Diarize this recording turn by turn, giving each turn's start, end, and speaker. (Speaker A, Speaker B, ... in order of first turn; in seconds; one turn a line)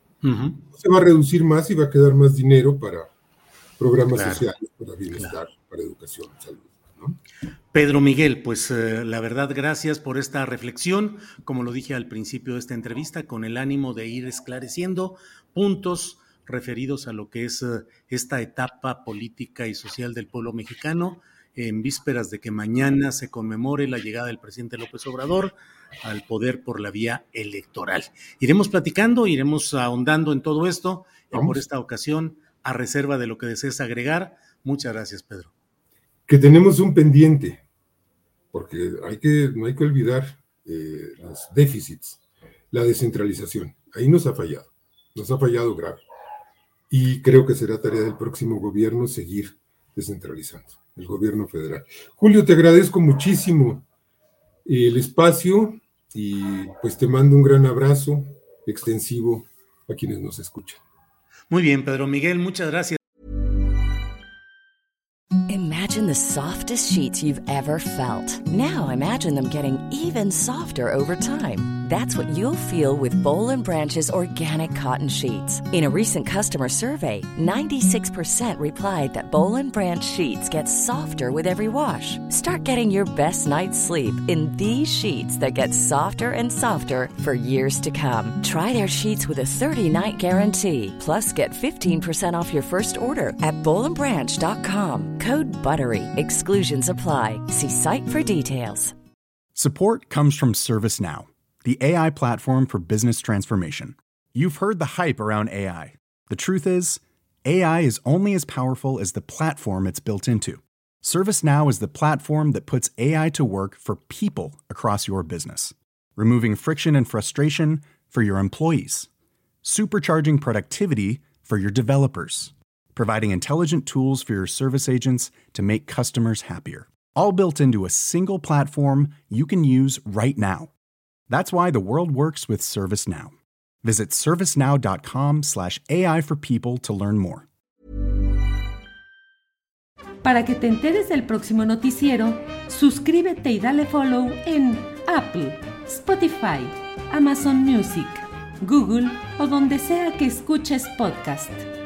Speaker A: 0.2-0.6
Speaker B: 0.7-3.1
Speaker B: 3.8-7.2
Speaker A: 4.1-4.5
Speaker A: 7.7-35.5
Speaker B: 31.3-31.6
Speaker B: 36.3-37.6
Speaker B: 38.5-42.2
Speaker B: 42.7-46.0
Speaker B: 46.9-53.9
Speaker B: 54.6-60.8
Speaker A: 61.5-63.0
Speaker C: 65.5-98.9
Speaker D: 99.5-119.1
Speaker D: 119.6-130.7
Speaker D: 131.3-137.5
Speaker E: 140.2-151.7